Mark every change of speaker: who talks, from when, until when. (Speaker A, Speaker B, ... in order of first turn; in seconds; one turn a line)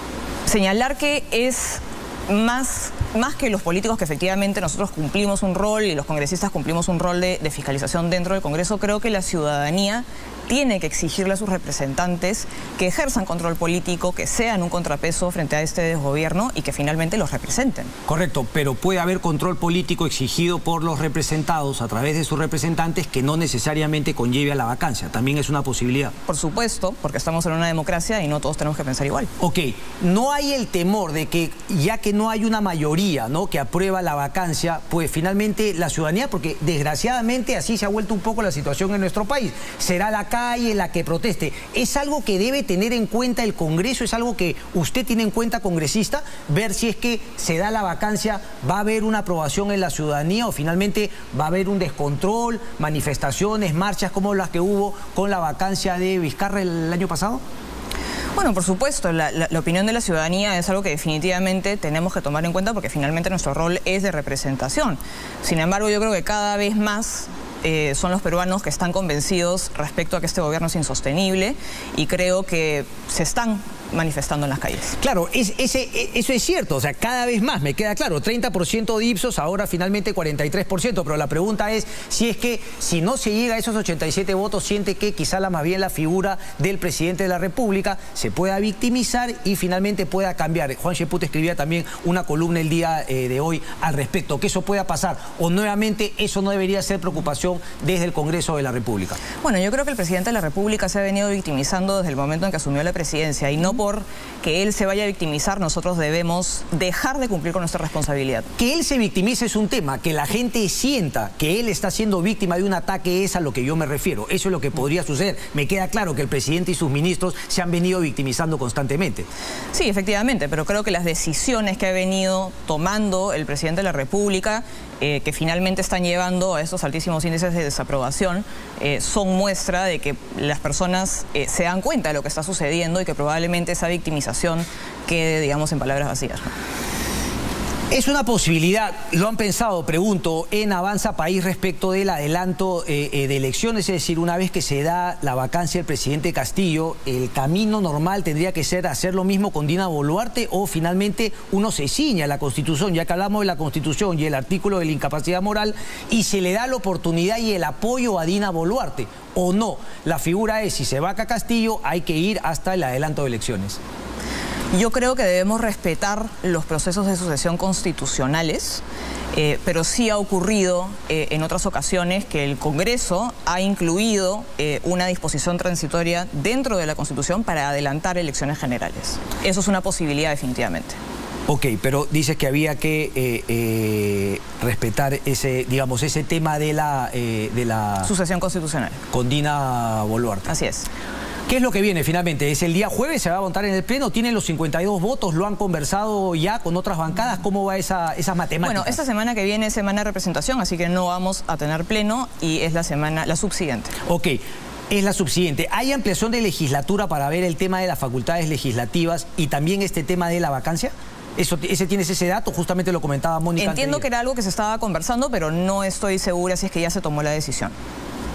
Speaker A: 0.5-17.9
Speaker B: 18.1-26.1
Speaker A: 26.3-29.3
Speaker B: 29.4-57.4
Speaker A: 58.4-75.0
Speaker B: 75.0-99.2
Speaker A: 99.4-108.5
Speaker B: 108.6-119.3
Speaker A: 119.7-136.6
Speaker B: 137.9-163.8
Speaker A: 164.7-168.8
Speaker A: 169.3-181.0
Speaker B: 181.5-188.1
Speaker A: 188.0-189.0
Speaker B: 189.1-190.5
Speaker A: 190.5-190.9
Speaker B: 191.5-199.0
Speaker A: 198.6-203.9
Speaker B: 204.1-214.1
Speaker A: 213.6-217.8